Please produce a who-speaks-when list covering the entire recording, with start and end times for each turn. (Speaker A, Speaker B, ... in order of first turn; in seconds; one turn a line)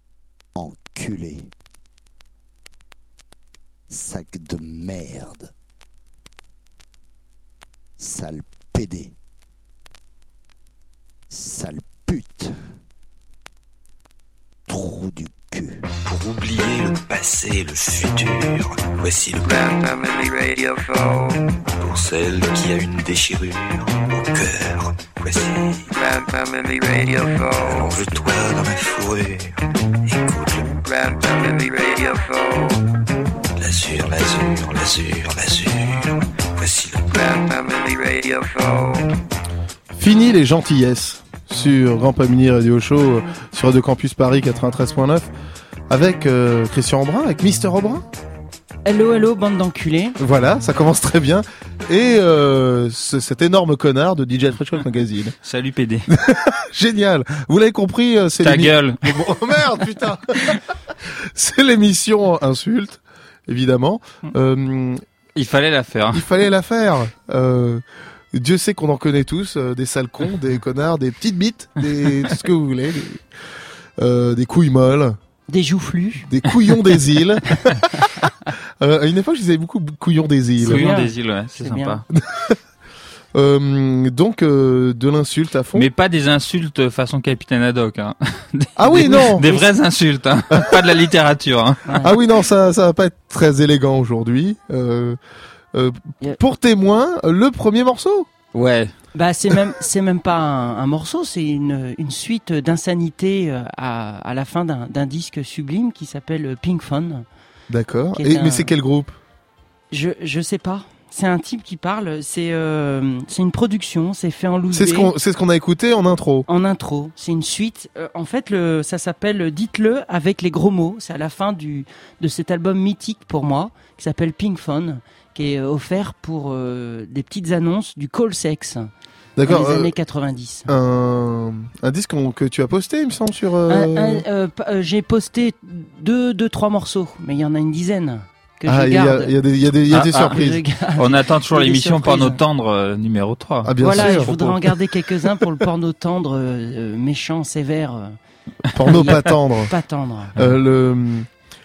Speaker A: 0.5-1.5
Speaker A: 3.9-5.5
Speaker A: 8.0-9.1
Speaker A: 11.3-12.6
Speaker A: 14.7-15.8
Speaker B: 16.0-26.2
Speaker B: 26.7-29.5
Speaker B: 30.1-32.2
Speaker B: 33.6-38.6
Speaker C: 39.9-45.3
Speaker C: 45.9-48.0
Speaker D: 48.9-50.1
Speaker C: 50.2-55.3
Speaker E: 55.4-56.1
Speaker C: 56.1-60.5
Speaker E: 58.4-59.0
Speaker C: 61.3-65.0
Speaker E: 65.3-66.2
Speaker C: 66.1-73.2
Speaker C: 74.0-75.2
Speaker D: 75.5-76.3
Speaker C: 76.2-77.8
Speaker C: 78.8-80.9
Speaker E: 80.6-82.0
Speaker D: 80.6-82.0
Speaker C: 82.1-82.6
Speaker C: 83.3-85.9
Speaker E: 85.7-91.9
Speaker C: 88.8-89.6
Speaker C: 92.0-95.2
Speaker C: 95.7-98.3
Speaker E: 98.5-98.9
Speaker D: 99.1-107.2
Speaker C: 107.7-109.1
Speaker D: 108.2-108.7
Speaker D: 109.9-115.1
Speaker C: 114.7-116.5
Speaker D: 116.5-128.9
Speaker C: 129.4-129.9
Speaker D: 129.4-130.7
Speaker C: 130.7-134.2
Speaker D: 133.7-139.3
Speaker C: 138.7-140.6
Speaker E: 139.9-140.4
Speaker D: 140.0-142.4
Speaker E: 141.0-144.7
Speaker C: 143.6-144.3
Speaker D: 143.8-148.2
Speaker C: 148.7-149.7
Speaker D: 148.9-150.3
Speaker C: 150.4-151.3